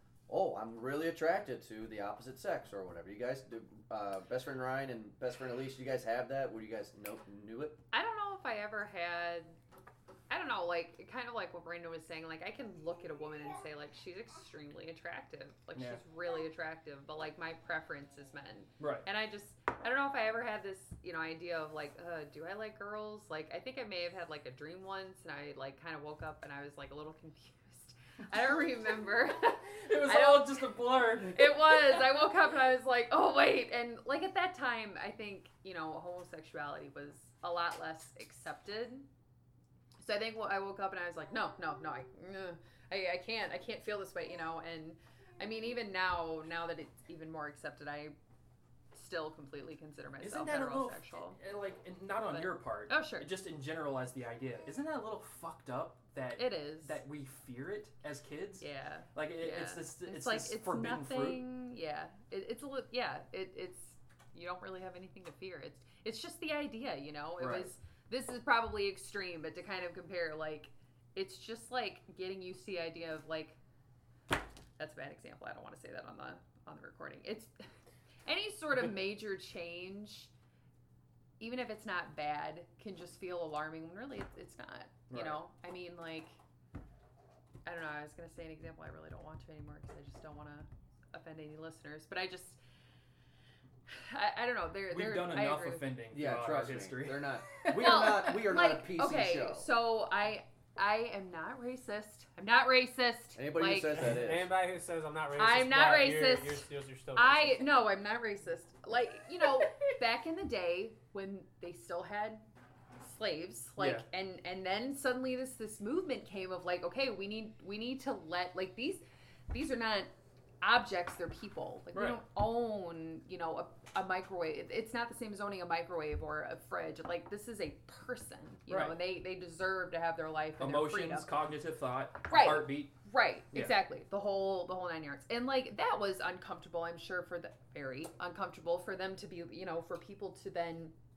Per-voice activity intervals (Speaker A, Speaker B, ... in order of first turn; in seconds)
Speaker A: 0.3-7.8, 96.1-99.7, 103.3-104.5
Speaker B: 7.9-9.6, 10.3-39.1, 40.0-48.2, 48.9-51.4, 52.3-53.3, 56.4-57.0, 58.6-73.6, 74.8-77.5, 78.3-80.3, 81.4-86.4, 87.7-92.6, 93.9-95.9, 97.7-104.0, 105.3-112.4, 113.0-131.3, 132.3-140.9
Speaker C: 15.7-16.0, 18.8-19.1, 29.8-32.0, 50.2-61.4, 67.4-67.7, 85.1-85.4, 94.9-98.2, 113.8-114.1, 121.9-122.2, 128.7-129.0, 130.6-132.9
Speaker D: 104.0-107.8